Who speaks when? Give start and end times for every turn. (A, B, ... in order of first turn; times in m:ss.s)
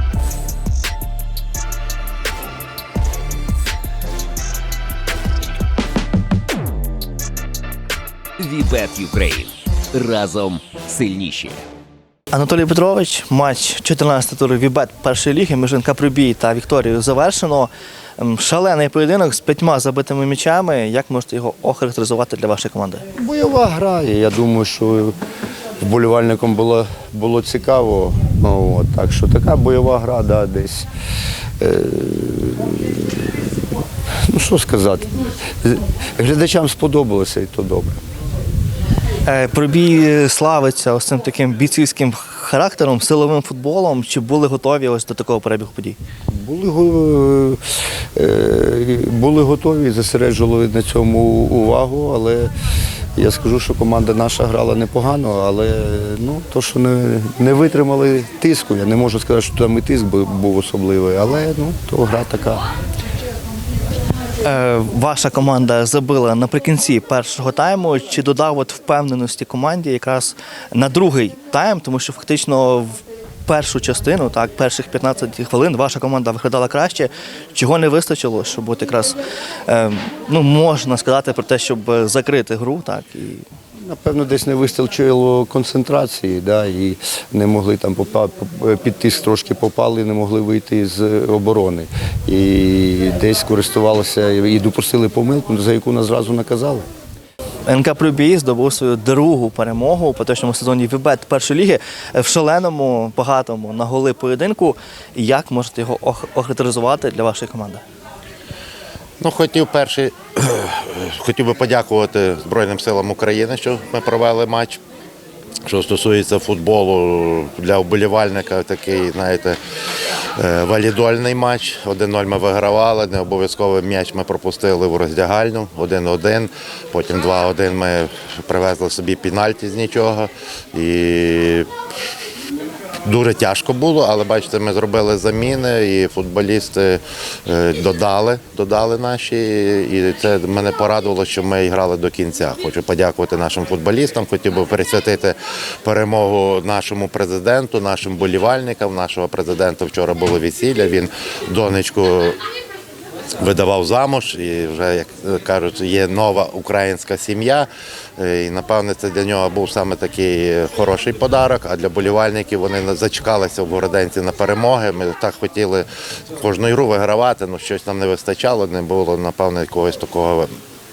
0:08.4-0:11.6 A
0:12.3-0:23.0 B
0:23.2-0:25.1 C
0:25.8-0:30.9 C
0:31.6-0:33.5 C
0:34.3-0:38.0 C
0:39.3-0:46.0 B
0:46.3-0:47.6 C
0:48.2-0:52.5 C
0:53.2-1:02.6 C
1:04.4-1:23.4 B
1:23.8-1:36.8 C
1:37.7-1:47.8 B
1:49.2-1:54.8 D
1:55.7-1:59.6 D
2:00.4-2:11.7 D
2:13.1-2:32.4 D
2:33.4-2:50.5 D